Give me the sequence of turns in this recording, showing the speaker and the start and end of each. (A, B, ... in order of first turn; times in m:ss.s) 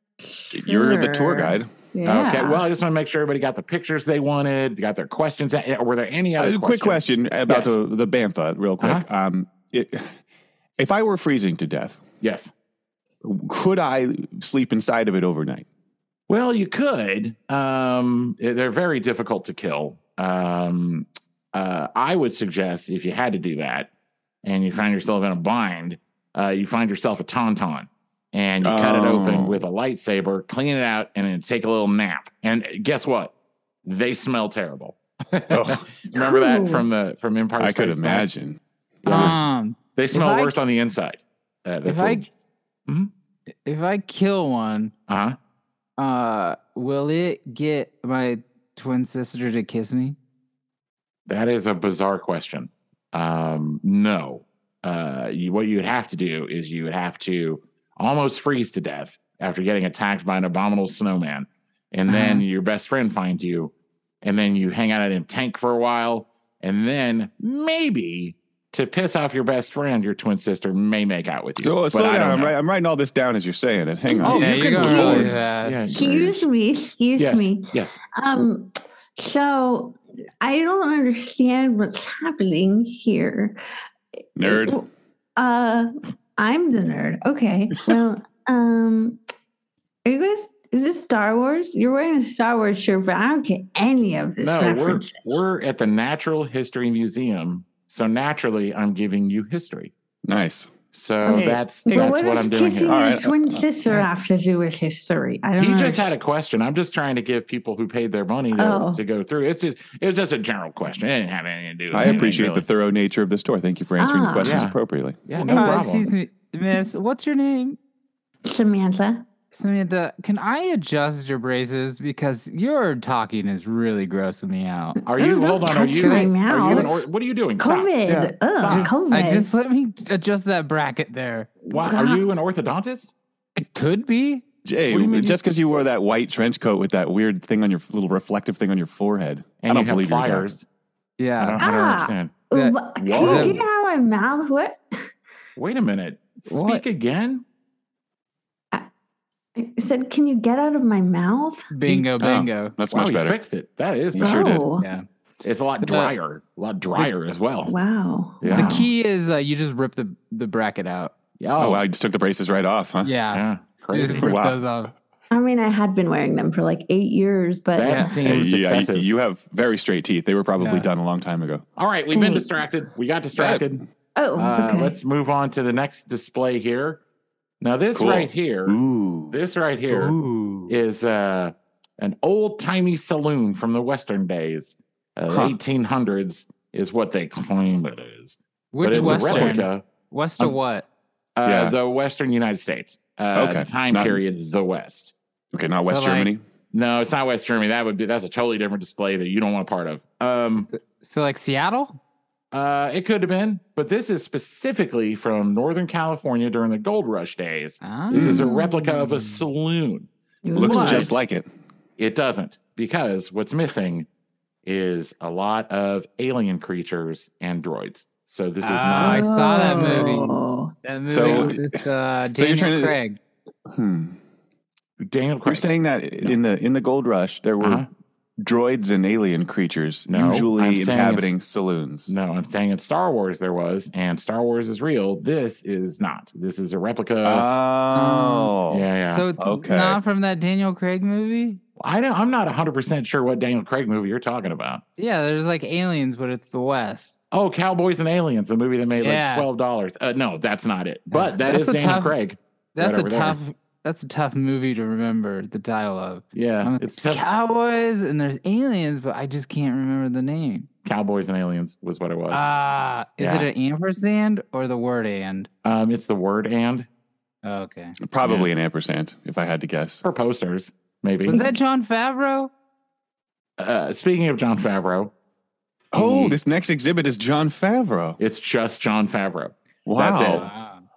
0:00.4-0:02.6 A
0:00.5-0:01.7 B
0:02.0-0:07.8 C
0:06.4-0:10.2 B
0:08.8-0:09.0 C
0:10.8-0:12.0 B
0:12.2-0:12.5 C
0:13.2-0:15.7 B
0:16.3-0:23.9 C
0:24.4-0:33.3 C
0:28.6-0:29.6 B
0:33.8-0:38.3 C
0:35.5-0:35.9 B
0:36.1-0:36.9 A
0:37.6-0:39.4 B
0:39.0-0:39.4 C
0:39.1-0:40.6 D
0:40.0-0:42.3 C
0:41.8-0:42.3 D
0:43.6-0:44.9 D
0:45.1-0:45.4 C
0:46.0-0:50.2 D
0:51.3-1:12.6 C
1:02.1-1:02.4 D
1:11.6-1:15.4 B
1:14.1-1:15.4 A
1:14.2-1:16.4 C
1:14.2-1:15.9 D
1:15.9-1:23.6 A
1:17.2-1:18.0 C
1:24.4-1:24.8 B
1:24.4-1:29.2 A
1:30.0-1:35.4 A
1:34.4-1:39.9 C
1:40.3-1:40.7 B
1:40.9-1:43.0 C
1:41.2-1:46.1 A
1:42.8-1:43.7 B
1:45.6-1:52.7 C
1:48.6-1:49.0 A
1:51.9-1:55.2 B
1:54.0-1:54.6 A
1:54.4-1:56.1 C
1:55.4-1:56.0 A
1:55.5-1:57.8 D
1:58.4-1:59.3 A
1:59.5-2:05.0 D
2:05.1-2:08.0 C
2:05.2-2:07.1 A
2:05.7-2:06.9 D
2:07.6-2:09.5 A
2:08.1-2:11.6 D
2:08.6-2:08.9 C
2:11.7-2:13.1 C
2:11.7-2:12.2 A
2:13.6-2:14.4 D
2:14.6-2:20.6 B
2:14.9-2:15.4 C
2:19.6-2:20.7 C
2:21.2-2:21.6 D
2:21.4-2:22.4 C
2:21.6-2:24.8 A
2:22.5-2:23.6 D
2:23.0-2:23.6 C
2:25.6-2:27.4 C
2:26.5-2:26.8 D
2:29.6-2:31.7 A
2:31.7-2:32.8 D
2:31.9-2:33.4 B
2:32.9-2:34.5 C
2:34.1-2:34.7 B
2:34.2-2:34.9 A
2:34.8-2:35.1 D
2:35.4-2:37.8 C
2:35.8-2:36.1 D
2:37.7-2:38.8 A
2:38.4-2:38.9 C
2:38.5-2:41.1 D
2:41.4-2:41.8 C
2:41.6-2:43.2 B
2:43.0-2:44.9 D
2:43.3-2:44.4 C
2:44.1-2:44.6 B
2:45.3-2:48.1 A
2:47.7-2:49.1 C
2:48.2-2:51.6 B
2:50.6-2:50.9 D
2:51.8-2:53.8 C
2:52.1-2:52.7 A
2:53.4-2:53.7 B
2:54.2-2:55.0 A
2:54.4-2:57.0 C
2:57.6-2:58.8 C
2:57.9-2:59.4 B
2:59.3-3:00.2 C
2:59.9-3:00.7 D
3:00.7-3:09.9 C
3:05.3-3:05.6 B
3:08.7-3:10.9 D
3:08.9-3:09.6 B
3:11.4-3:15.2 C
3:11.4-3:11.8 B
3:13.4-3:14.2 B
3:15.5-3:16.4 B
3:15.8-3:16.3 D
3:16.7-3:20.7 C
3:21.0-3:22.0 D
3:22.5-3:31.2 C
3:27.8-3:29.4 D
3:28.1-3:28.5 B
3:28.4-3:28.7 A
3:30.4-3:31.2 A
3:30.6-3:31.5 B
3:32.0-3:34.1 C
3:34.6-3:39.3 C
3:38.6-3:43.2 D
3:39.0-3:40.7 A
3:41.1-3:41.8 B
3:42.3-3:43.0 B
3:43.7-3:44.2 B
3:45.0-3:45.7 C
3:45.5-3:47.9 B
3:47.6-3:47.9 C
3:48.4-3:52.1 B
3:50.1-3:51.4 C
3:52.1-3:57.5 C
3:57.2-3:58.9 B
3:57.9-3:58.5 D
3:58.7-3:59.3 C
3:59.1-4:01.6 D
3:59.4-4:00.0 B
4:01.8-4:04.8 C
4:05.0-4:07.2 D
4:07.3-4:13.4 C
4:09.0-4:09.5 D
4:11.1-4:12.2 D
4:12.8-4:20.7 D
4:16.3-4:17.2 C
4:20.8-4:22.5 C
4:22.3-4:25.5 D
4:23.2-4:23.5 C
4:25.6-4:26.9 C
4:27.4-4:28.0 D
4:28.0-4:30.0 B
4:28.2-4:28.5 C
4:30.0-4:31.4 C
4:31.3-4:32.5 D
4:33.6-4:35.1 C
4:35.9-4:38.2 B
4:35.9-4:36.4 C
4:38.2-4:40.5 C
4:39.9-4:40.5 B
4:40.3-4:40.8 D